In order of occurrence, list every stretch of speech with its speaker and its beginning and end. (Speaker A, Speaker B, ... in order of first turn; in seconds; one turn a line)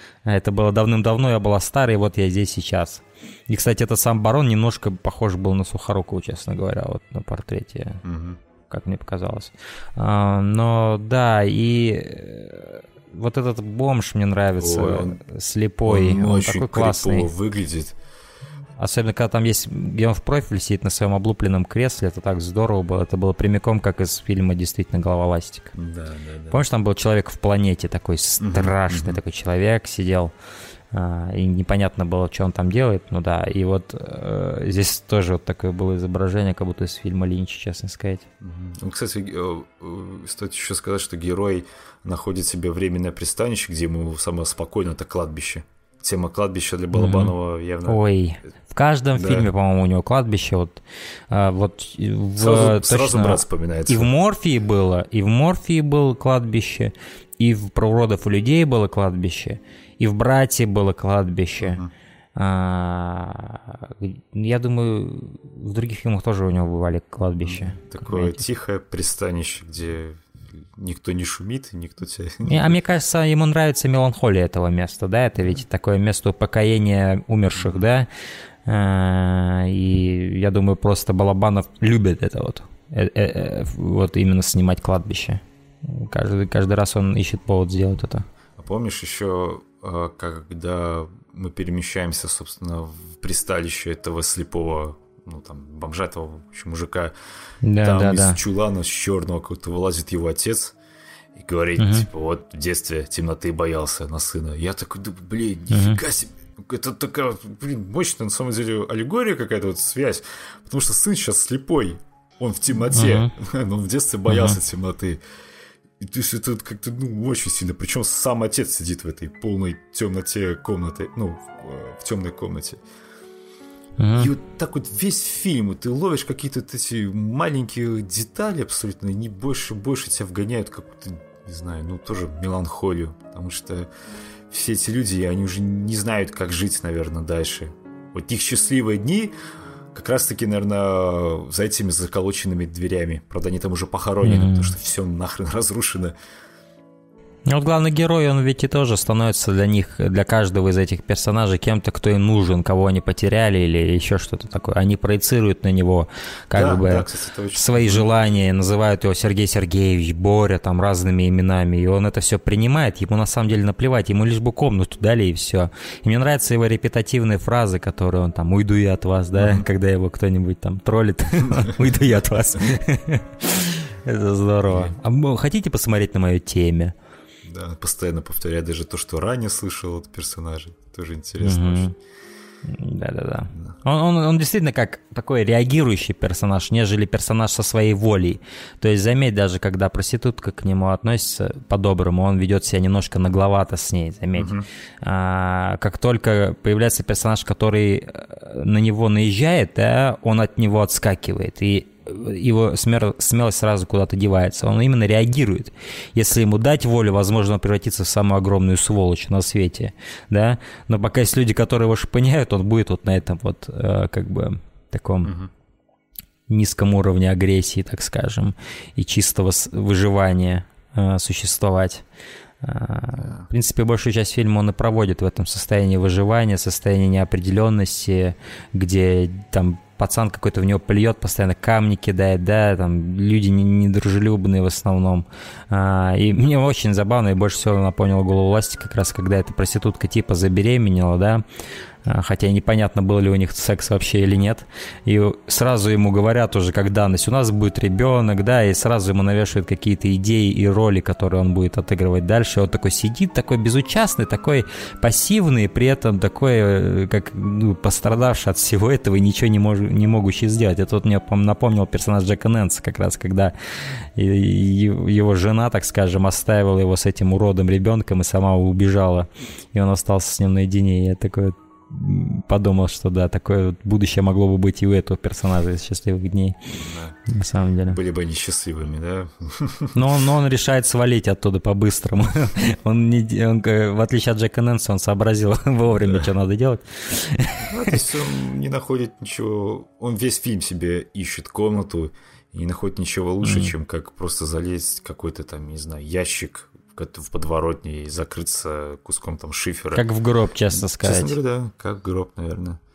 Speaker A: 0.2-8.0
Speaker B: 8.0-8.4
Speaker A: 8.7-17.3
Speaker B: 14.6-15.2
Speaker B: 15.8-18.0
Speaker A: 18.8-25.7
Speaker B: 25.7-26.6
Speaker A: 26.5-30.3
Speaker B: 28.4-29.2
Speaker A: 30.9-38.3
Speaker B: 38.4-48.0
Speaker A: 46.9-47.3
Speaker A: 47.9-61.8
Speaker B: 49.1-49.5
Speaker B: 52.4-54.1
Speaker B: 61.6-61.9
Speaker A: 62.4-68.4
Speaker B: 67.4-72.8
Speaker A: 72.4-78.1
Speaker A: 78.7-88.2
Speaker B: 88.6-97.1
Speaker A: 97.6-98.4
Speaker B: 97.8-100.7
Speaker B: 101.3-115.2
Speaker A: 101.8-102.0
Speaker A: 105.7-106.0
Speaker A: 112.9-113.3
Speaker A: 114.3-114.6
Speaker B: 116.0-122.8
Speaker A: 124.0-124.3
Speaker B: 124.1-133.9
Speaker B: 134.5-139.3
Speaker B: 139.9-146.1
Speaker A: 144.2-144.7
Speaker A: 147.5-176.9
Speaker B: 156.5-158.1
Speaker B: 169.3-169.6
Speaker B: 171.5-171.8
Speaker B: 174.7-174.9
Speaker B: 177.4-181.9
Speaker A: 181.4-181.9
Speaker A: 182.7-215.3
Speaker B: 194.3-194.7
Speaker B: 215.2-215.5
Speaker A: 216.5-222.0
Speaker A: 222.6-241.4
Speaker B: 223.2-223.5
Speaker A: 242.0-278.0
Speaker B: 276.8-277.2
Speaker B: 277.9-280.1
Speaker A: 279.9-287.9
Speaker B: 287.6-300.0
Speaker A: 293.4-293.7
Speaker A: 299.9-301.4
Speaker B: 300.7-302.8